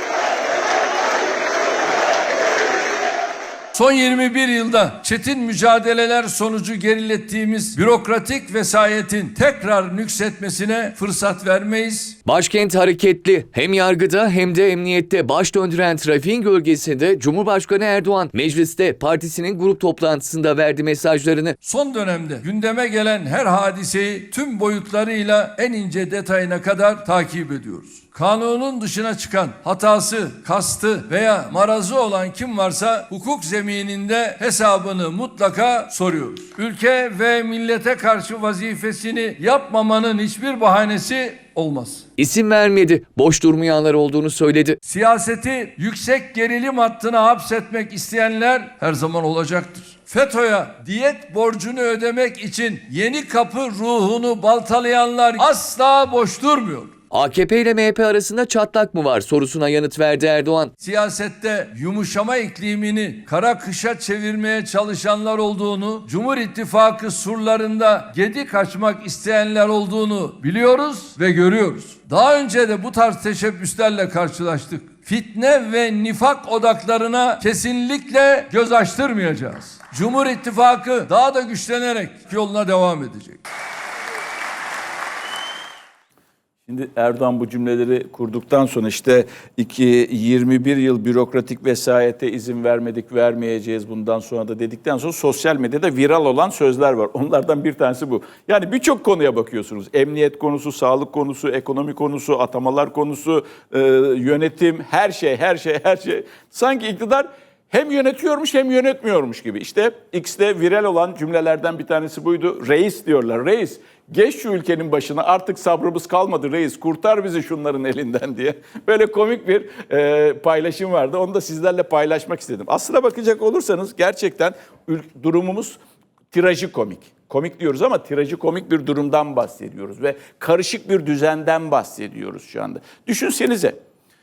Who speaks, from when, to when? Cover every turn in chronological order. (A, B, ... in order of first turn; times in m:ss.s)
0:03.7-0:12.2 A
0:12.2-0:21.6 B
0:21.6-0:42.0 A
0:42.2-0:44.8 B
0:44.8-0:56.9 A
0:57.1-1:00.7 B
1:00.8-1:23.4 A
1:26.7-2:05.8 C
2:06.3-2:13.8 C